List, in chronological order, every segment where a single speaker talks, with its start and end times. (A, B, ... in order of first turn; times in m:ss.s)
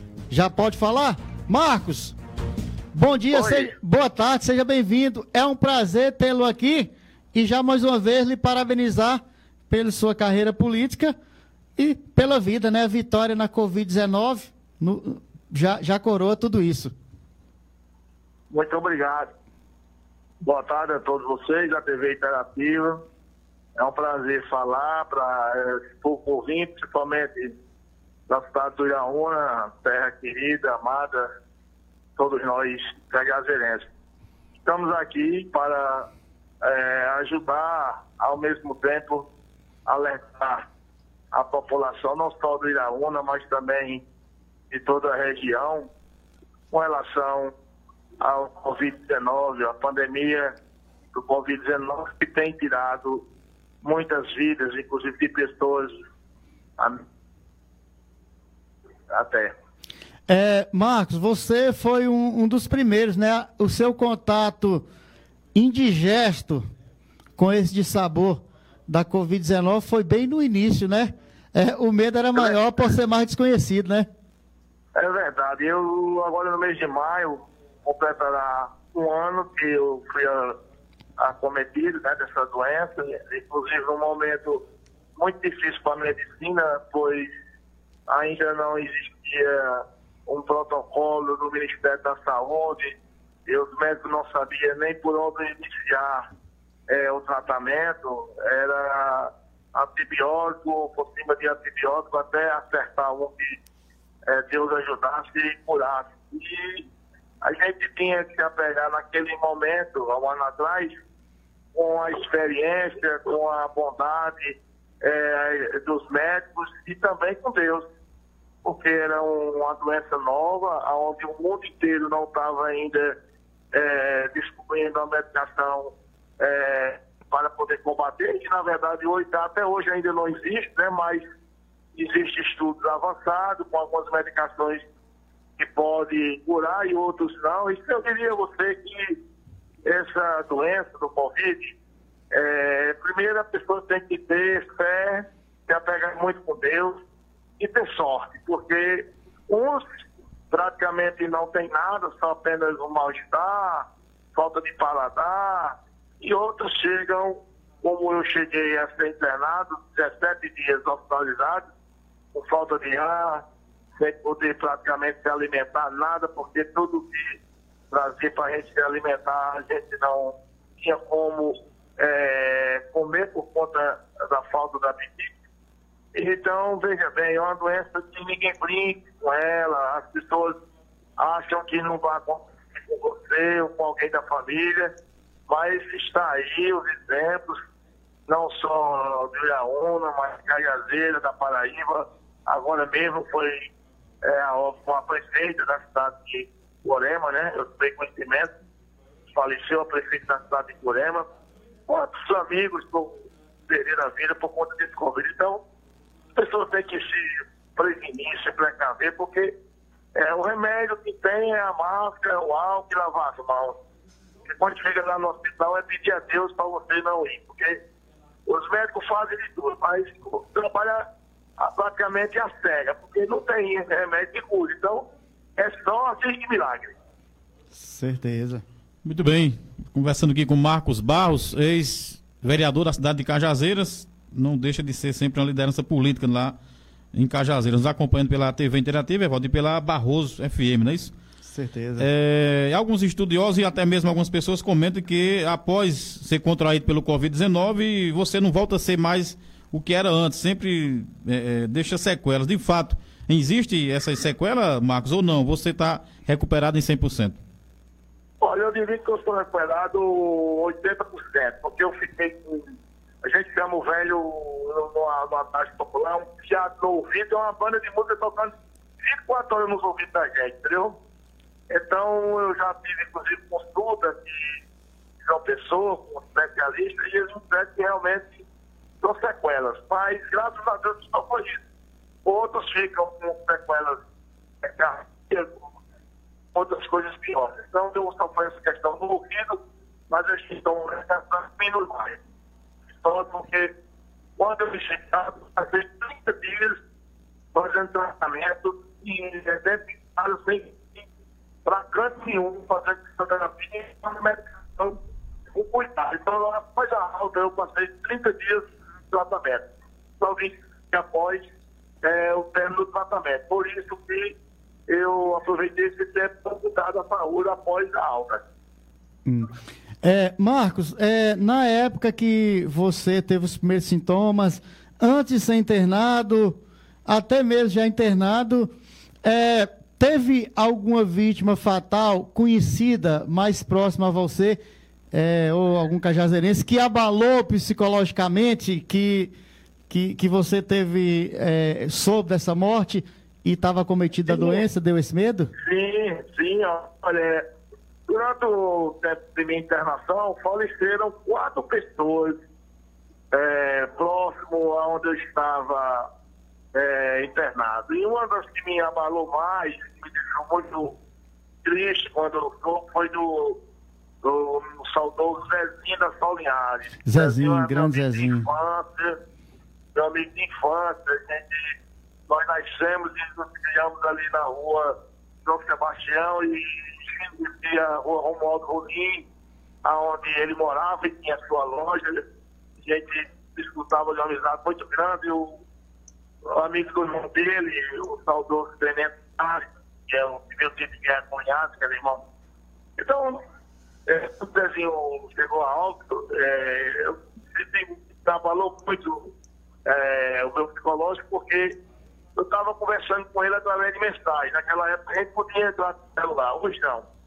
0:00.3-0:02.2 A
0:02.9-0:11.1 A
0:03.3-0:03.7 B
0:11.8-0:16.9 A
0:18.5-0:19.3 B
0:20.4-0:23.0 B
0:23.8-0:27.6 B
0:28.3-0:31.3 B
0:32.2-0:33.8 B
0:34.6-0:36.1 B
0:36.6-0:39.3 B
0:39.8-0:40.6 B
0:41.3-0:44.0 B
0:44.7-0:45.9 B
0:46.7-0:47.5 B
0:48.2-0:50.5 B
0:51.1-0:53.2 B
0:53.8-0:55.9 B
0:59.1-0:59.5 B
1:00.3-1:04.8 A
1:05.5-1:06.6 A
1:07.4-1:14.1 A
1:14.9-1:20.6 B
1:21.2-1:24.6 B
1:25.2-1:27.3 B
1:28.1-1:36.2 B
1:36.9-1:43.6 B
1:44.3-1:46.9 B
1:47.4-1:51.0 B
1:51.7-1:57.8 B
1:58.6-2:03.2 B
2:03.7-2:11.2 B
2:12.0-2:14.8 B
2:15.6-2:19.2 B
2:19.8-2:21.8 B
2:22.3-2:27.0 B
2:27.6-2:41.6 B
2:42.3-2:43.4 B
2:44.0-2:47.4 B
2:47.9-2:55.3 B
2:56.1-3:00.5 B
3:01.2-3:04.9 B
3:05.5-3:07.6 B
3:08.3-3:13.7 B
3:14.2-3:18.5 B
3:19.3-3:21.3 B
3:21.9-3:23.1 B
3:23.7-3:25.6 B
3:26.4-3:29.5 B
3:30.1-3:33.8 B
3:34.4-3:37.8 B
3:38.4-3:41.1 B
3:41.6-3:46.9 B
3:47.7-3:48.6 A
3:49.0-3:56.5 C
3:57.1-4:01.1 C
4:01.4-4:02.1 A
4:02.0-4:17.4 C
4:18.4-4:31.0 B
4:31.7-4:34.6 B
4:35.2-4:38.4 B
4:39.0-4:41.6 B
4:42.2-4:44.0 B
4:44.6-4:45.7 B
4:46.5-4:52.2 B
4:53.0-4:53.7 B
4:54.4-4:56.8 B
4:57.5-5:01.0 B
5:01.6-5:05.0 B
5:05.5-5:09.7 B
5:10.2-5:11.4 B
5:12.0-5:14.4 B
5:14.9-5:18.4 B
5:20.0-5:28.7 A
5:29.2-5:34.6 A
5:35.1-5:39.3 A
5:39.9-5:45.5 A
5:44.3-5:44.6 B
5:45.6-5:47.4 B
5:48.1-5:52.4 B
5:53.3-5:56.1 B
5:56.7-6:01.0 B
6:01.6-6:03.6 B
6:04.2-6:09.2 B
6:07.0-6:08.5 A
6:09.9-6:11.7 B
6:12.3-6:19.2 B
6:19.8-6:22.2 B
6:22.8-6:25.6 B
6:26.4-6:32.2 B
6:33.0-6:33.4 B
6:34.1-6:39.3 B
6:39.8-6:41.7 B
6:42.4-6:47.0 B